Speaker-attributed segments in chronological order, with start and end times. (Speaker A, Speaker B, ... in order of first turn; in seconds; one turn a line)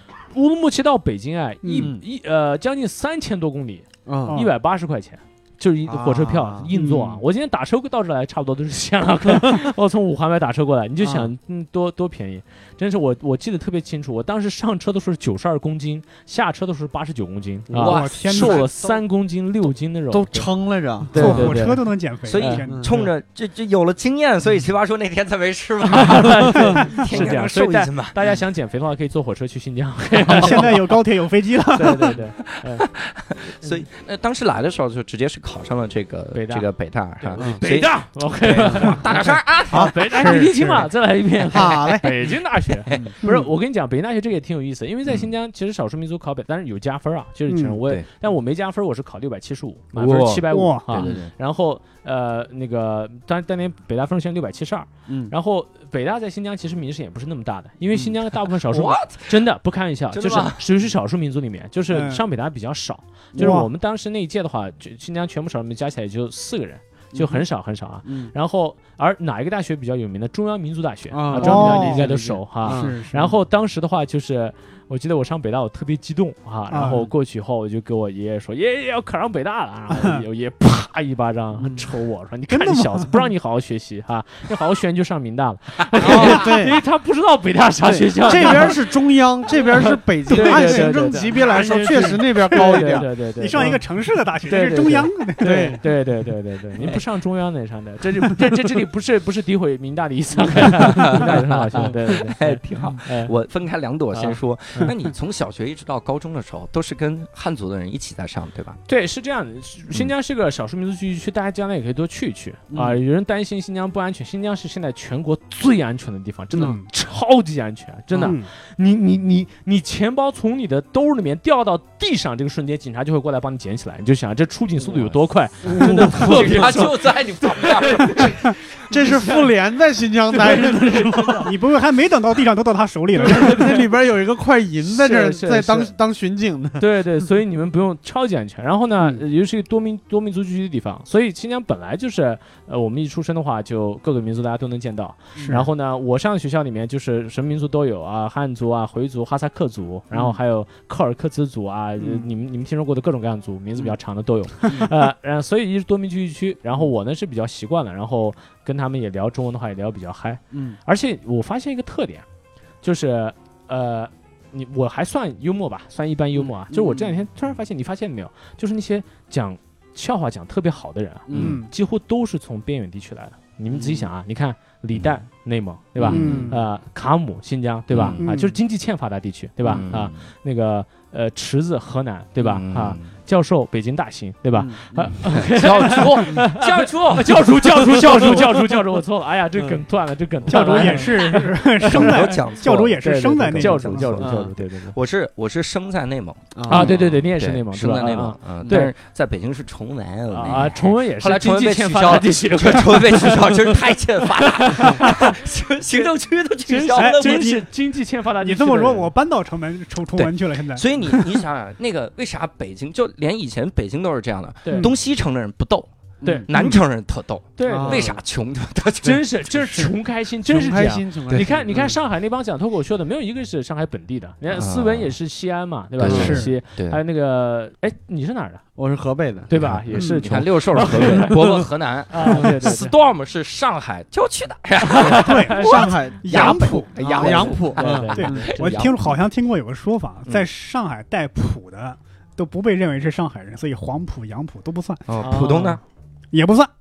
Speaker A: 0.3-20.5
Speaker B: 1.6-1.9
Speaker C: 1.8-2.0
Speaker C: 4.1-4.4
Speaker C: 5.9-6.7
Speaker B: 6.7-7.2
Speaker C: 11.0-11.3
Speaker D: 17.7-19.0
Speaker B: 17.8-18.6
Speaker C: 20.1-21.6
Speaker A: 21.0-21.9
Speaker B: 21.1-22.9
Speaker D: 22.3-28.2
Speaker A: 22.4-22.6
Speaker C: 22.7-23.1
Speaker A: 25.9-31.0
Speaker C: 26.5-26.8
Speaker B: 30.3-32.2
Speaker A: 31.7-32.9
Speaker D: 32.2-40.1
Speaker A: 36.3-36.7
Speaker A: 37.2-39.1
Speaker B: 38.9-40.9
Speaker C: 39.7-40.3
Speaker A: 39.7-88.9
Speaker C: 41.4-42.3
Speaker D: 42.9-43.1
Speaker B: 43.2-43.5
Speaker B: 47.5-47.8
Speaker D: 49.9-51.3
Speaker B: 50.5-50.9
Speaker C: 51.0-51.2
Speaker C: 55.1-55.3
Speaker D: 58.3-59.3
Speaker D: 60.1-60.7
Speaker B: 61.9-62.2
Speaker C: 63.4-63.6
Speaker B: 63.4-63.7
Speaker C: 67.1-67.5
Speaker C: 68.0-68.3
Speaker C: 71.1-73.0
Speaker B: 71.3-72.1
Speaker B: 72.6-73.3
Speaker B: 76.7-77.1
Speaker B: 79.9-80.2
Speaker C: 81.6-81.9
Speaker B: 82.5-83.3
Speaker C: 86.0-86.8
Speaker B: 86.2-86.4
Speaker C: 87.8-93.8
Speaker A: 89.5-93.8
Speaker B: 90.3-95.7
Speaker A: 94.4-103.3
Speaker C: 95.4-95.8
Speaker C: 100.6-101.2
Speaker D: 100.8-108.8
Speaker A: 104.1-104.9
Speaker A: 108.9-129.5
Speaker C: 112.7-113.0
Speaker B: 116.5-116.9
Speaker B: 118.2-118.5
Speaker C: 125.6-126.5
Speaker D: 125.8-128.6
Speaker C: 128.9-131.5
Speaker A: 130.3-131.5
Speaker B: 131.4-133.7
Speaker A: 133.2-133.9
Speaker C: 133.2-136.8
Speaker A: 134.8-135.9
Speaker A: 136.8-162.2
Speaker B: 145.4-145.7
Speaker C: 150.1-150.4
Speaker B: 152.0-152.3
Speaker C: 154.7-154.9
Speaker C: 160.5-160.8
Speaker A: 162.8-195.0
Speaker C: 166.3-167.2
Speaker C: 171.3-171.6
Speaker D: 171.3-171.6
Speaker B: 171.4-171.7
Speaker C: 173.7-174.1
Speaker C: 176.0-176.4
Speaker B: 176.0-176.6
Speaker D: 176.1-176.5
Speaker D: 177.9-178.2
Speaker B: 178.2-178.6
Speaker D: 179.7-180.2
Speaker D: 182.5-183.1
Speaker C: 184.5-185.0
Speaker D: 184.9-188.4
Speaker C: 187.7-188.6
Speaker C: 189.6-189.8
Speaker B: 190.5-194.2
Speaker D: 190.5-193.0
Speaker D: 193.5-207.5
Speaker C: 194.2-194.5
Speaker C: 196.6-196.9
Speaker A: 196.7-198.9
Speaker C: 198.6-198.9
Speaker A: 200.3-205.4
Speaker A: 206.7-209.1
Speaker B: 206.9-207.7
Speaker B: 208.4-211.3
Speaker D: 210.1-215.9
Speaker C: 216.2-216.5
Speaker B: 216.2-216.8
Speaker D: 216.5-219.2
Speaker A: 217.6-218.2
Speaker C: 217.7-218.2
Speaker A: 219.0-228.7
Speaker B: 219.6-219.9
Speaker C: 220.5-222.0
Speaker D: 224.5-225.1
Speaker D: 226.0-227.0
Speaker C: 226.0-226.4
Speaker B: 226.1-226.5
Speaker C: 228.8-229.5
Speaker A: 229.5-232.9
Speaker D: 229.5-239.2
Speaker B: 229.9-230.3
Speaker C: 230.8-231.7
Speaker A: 234.8-236.0
Speaker B: 235.1-237.5
Speaker C: 235.5-238.6
Speaker A: 237.2-238.8
Speaker B: 238.1-245.0
Speaker D: 245.1-245.8
Speaker A: 245.2-245.8
Speaker B: 246.3-246.7